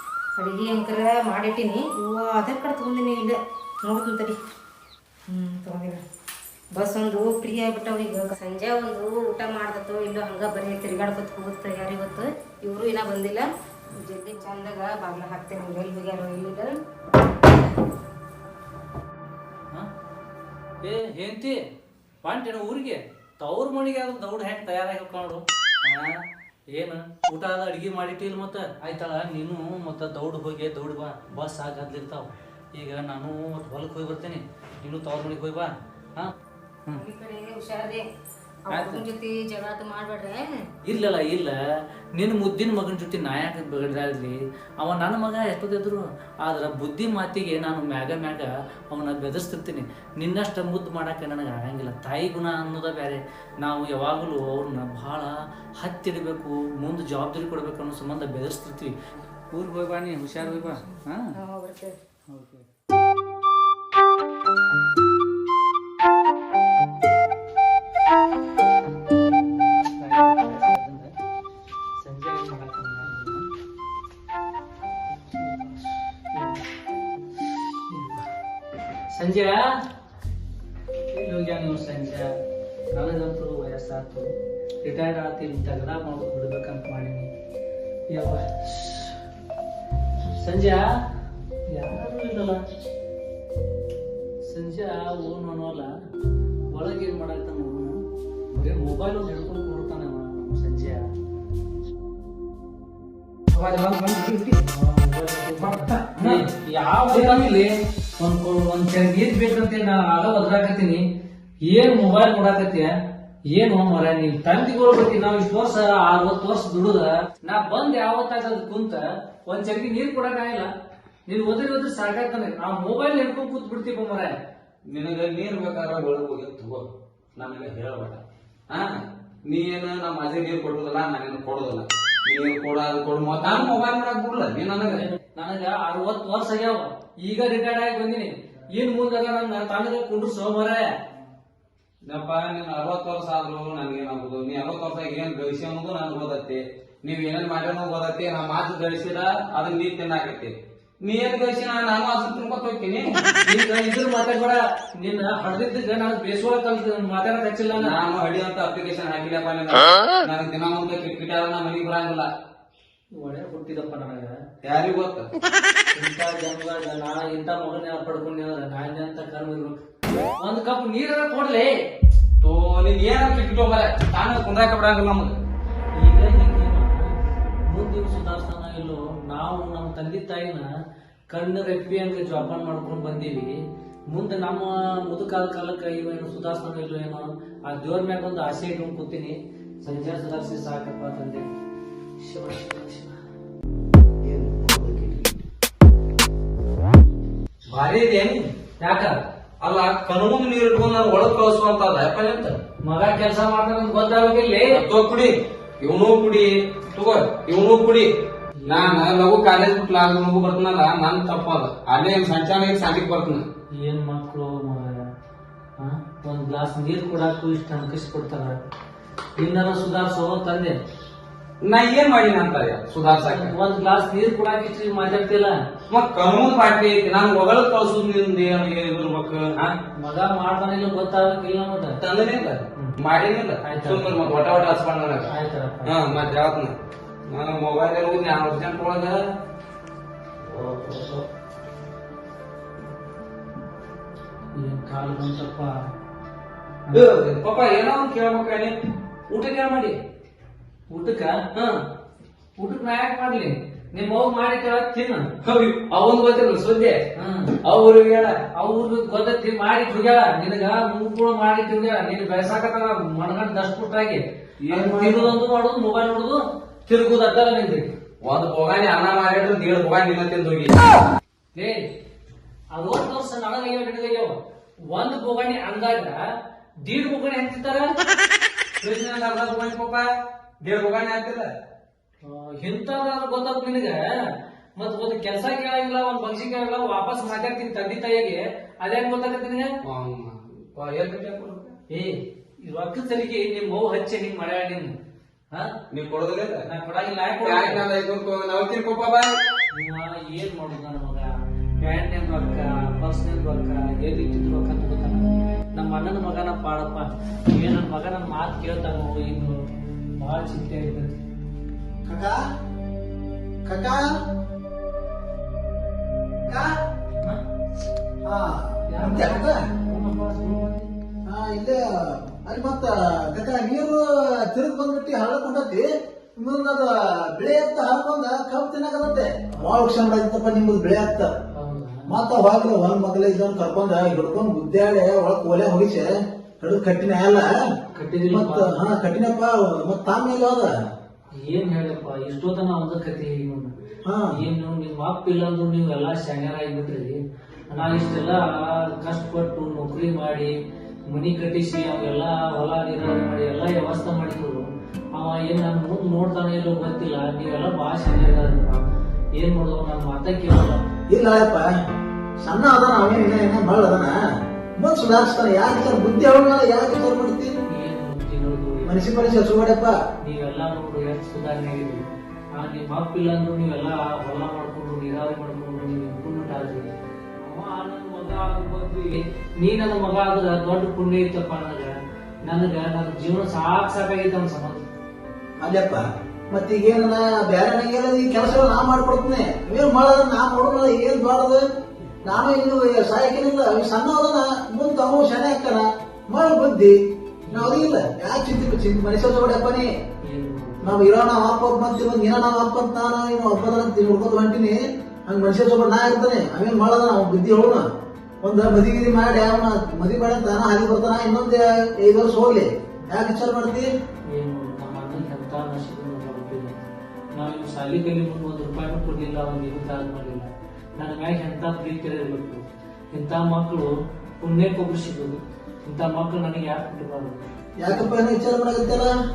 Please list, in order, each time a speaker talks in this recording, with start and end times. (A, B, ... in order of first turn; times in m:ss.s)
0:00.4-0:04.4 A
0:05.3-0:06.0 A
0:06.7-0:16.8 A
0:20.8-0:21.6 B
0:22.2-0:36.3 B
0:36.9-0:38.0 A
0:38.6-0:40.6 A
0:38.7-0:39.0 B
0:40.8-0:41.6 B
0:42.1-0:58.9 B
0:59.5-1:01.3 B
1:01.3-1:02.0 A
1:02.3-1:02.6 B
1:09.2-1:11.2 B
1:12.0-1:13.5 B
1:15.3-1:16.6 B
1:17.5-1:18.2 B
1:19.1-1:19.8 B
1:21.1-1:22.3 B
1:22.9-1:27.3 B
1:28.1-1:29.2 B
1:30.4-1:30.9 B
1:31.7-1:32.6 B
1:34.4-1:35.9 B
1:36.7-1:41.1 B
1:43.5-1:44.6 C
1:44.5-1:51.0 B
1:45.6-1:46.4 C
1:47.1-1:47.5 C
1:51.6-1:52.9 B
1:53.4-2:00.7 B
2:01.2-2:04.3 B
2:04.9-2:06.8 C
2:07.4-2:15.0 C
2:13.4-2:13.8 B
2:14.8-2:20.9 B
2:22.0-2:33.2 C
2:33.4-2:38.0 B
2:37.8-2:42.3 C
2:43.2-2:44.4 B
2:44.6-2:45.3 C
2:45.9-2:49.8 B
2:50.4-2:51.7 B
2:52.4-2:55.4 C
2:55.9-2:57.1 B
2:57.7-3:00.7 B
3:01.3-3:11.4 B
3:12.2-3:13.2 B
3:14.2-3:15.3 C
3:17.7-3:18.5 C
3:18.8-3:19.2 B
3:19.6-3:22.6 C
3:22.8-3:24.8 B
3:24.7-3:28.1 C
3:28.6-3:29.0 B
3:28.6-3:33.4 C
3:33.7-3:35.1 B
3:35.8-3:38.6 B
3:39.4-3:40.8 B
3:41.6-3:43.5 C
3:43.1-3:45.6 B
3:45.9-3:49.7 C
3:49.9-3:52.0 B
3:52.0-3:55.3 C
3:53.6-3:54.3 B
3:55.3-3:56.2 B
3:55.8-3:56.7 C
3:57.3-3:59.2 C
4:00.4-4:01.2 C
4:04.5-4:05.9 B
4:06.9-4:08.8 C
4:09.3-4:10.0 C
4:10.9-4:11.4 B
4:11.5-4:11.8 C
4:12.6-4:15.3 B
4:15.4-4:17.0 C
4:17.1-4:17.6 B
4:17.6-4:18.4 C
4:18.5-4:27.9 B
4:24.6-4:25.4 C
4:28.2-4:30.9 C
4:31.5-4:31.9 B
4:32.7-4:34.4 B
4:34.9-4:36.2 B
4:36.8-4:37.9 B
4:38.8-4:40.1 C
4:40.6-4:41.5 C
4:42.2-4:49.7 B
4:49.8-4:51.7 C
4:51.9-4:54.9 B
4:55.9-4:56.6 C
4:56.6-4:57.8 B
4:57.4-4:59.4 C
4:59.7-5:09.6 B
5:10.2-5:11.2 B
5:12.0-5:12.4 D
5:13.6-5:14.1 D
5:16.5-5:16.7 D
5:18.2-5:19.6 D
5:18.9-5:20.9 B
5:21.2-5:31.3 D
5:31.5-5:32.2 B
5:32.1-5:37.5 D
5:37.9-5:38.8 B
5:38.3-5:40.7 D
5:41.3-5:43.7 B
5:44.0-5:44.4 D
5:44.3-5:50.5 B
5:51.1-6:00.8 B
6:01.1-6:01.7 D
6:02.4-6:04.2 D
6:04.8-6:07.5 D
6:07.7-6:09.2 B
6:08.8-6:10.0 D
6:10.2-6:21.9 B
6:22.4-6:24.8 B
6:25.6-6:31.6 D
6:32.2-6:37.0 D
6:37.5-6:38.1 B
6:37.5-6:39.9 D
6:40.2-6:41.0 B
6:40.8-6:47.8 D
6:48.4-6:53.9 D
6:54.3-6:56.8 B
6:57.3-7:08.1 B
7:07.8-7:09.1 D